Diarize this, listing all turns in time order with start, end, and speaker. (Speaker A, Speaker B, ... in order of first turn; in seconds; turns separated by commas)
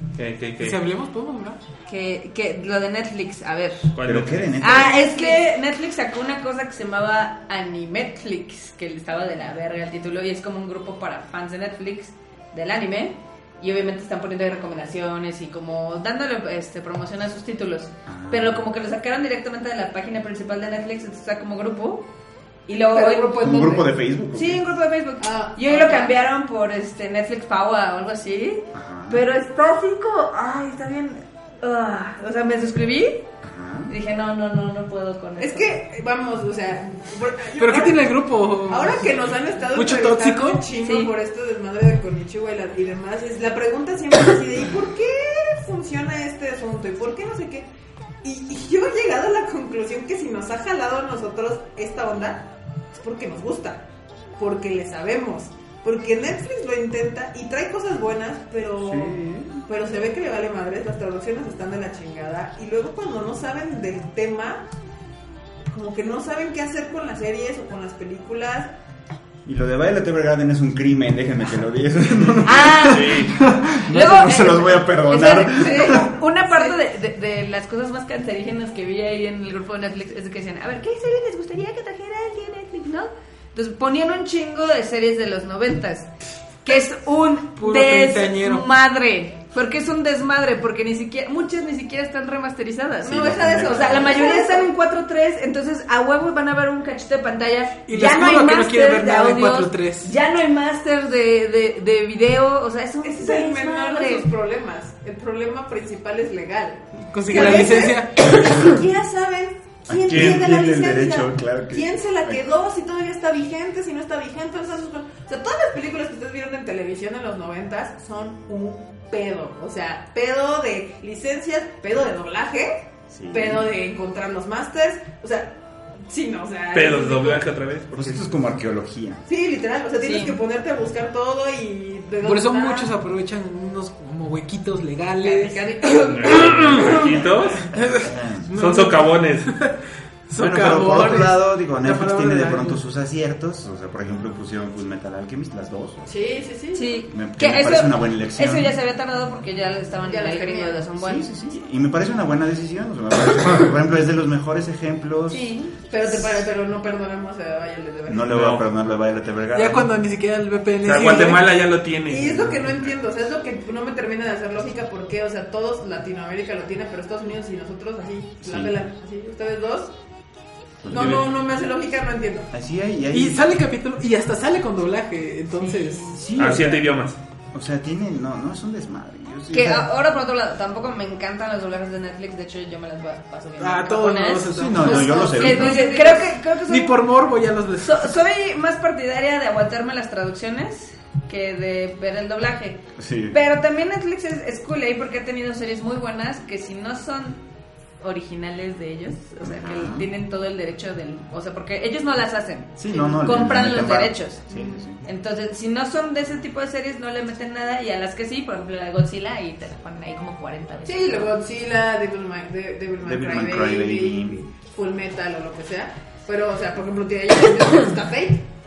Speaker A: 0.1-0.8, Speaker B: 0.6-1.6, Speaker C: 1.9-3.9, Speaker A: 3.9-4.6, Speaker D: 4.0-5.0, Speaker C: 4.6-22.1, Speaker E: 5.0-5.4, Speaker D: 18.1-18.6, Speaker C: 22.7-23.6, Speaker E: 22.9-23.9, Speaker D: 23.4-24.6, Speaker C: 24.3-33.2, Speaker E: 25.2-26.1, Speaker D: 28.7-29.2, Speaker D: 33.4-33.9, Speaker C: 33.9-35.8, Speaker E: 35.4-47.7, Speaker B: 37.6-40.6, Speaker C: 40.8-41.1, Speaker E: 48.2-53.9, Speaker E: 54.4-64.7, Speaker D: 58.8-59.6, Speaker E: 65.7-68.7, Speaker D: 69.5-76.1, Speaker C: 72.4-73.3, Speaker A: 72.9-73.3, Speaker C: 73.9-86.1, Speaker E: 75.5-76.8, Speaker C: 86.6-104.3, Speaker B: 87.5-88.7, Speaker D: 93.0-94.2, Speaker E: 93.0-94.7, Speaker B: 97.8-100.1, Speaker E: 103.0-125.5, Speaker B: 107.1-108.2, Speaker D: 109.9-112.5, Speaker A: 110.1-110.4, Speaker D: 123.1-123.7, Speaker E: 126.1-127.5, Speaker A: 126.7-128.2, Speaker D: 127.9-129.2, Speaker E: 129.3-132.9, Speaker C: 130.0-130.4, Speaker B: 132.2-135.7, Speaker E: 135.2-137.3, Speaker A: 136.0-137.6, Speaker B: 136.5-137.0, Speaker B: 137.7-139.7, Speaker D: 137.8-138.5, Speaker A: 138.5-139.5, Speaker B: 140.3-142.8, Speaker D: 140.4-146.1, Speaker E: 146.1-146.9, Speaker C: 146.7-151.3, Speaker D: 147.1-148.7, Speaker E: 150.0-150.9, Speaker D: 151.0-155.5, Speaker C: 155.3-155.8, Speaker E: 155.9-158.3, Speaker D: 158.1-159.9, Speaker A: 158.3-158.6, Speaker B: 159.5-161.5, Speaker A: 160.8-162.9, Speaker E: 162.1-169.9, Speaker D: 168.4-168.8, Speaker D: 170.8-171.3, Speaker E: 170.9-172.5, Speaker A: 170.9-171.3, Speaker D: 172.5-173.4, Speaker B: 173.1-176.8, Speaker C: 175.6-176.0, Speaker D: 176.2-176.8, Speaker A: 176.3-177.2, Speaker D: 177.5-179.9, Speaker C: 179.5-187.0, Speaker B: 183.6-188.2, Speaker D: 184.5-185.8, Speaker E: 184.9-186.2, Speaker C: 187.8-197.4, Speaker D: 193.0-193.4, Speaker C: 198.0-211.3, Speaker D: 199.4-200.1, Speaker D: 202.8-205.0, Speaker E: 210.8-218.4, Speaker D: 213.0-214.4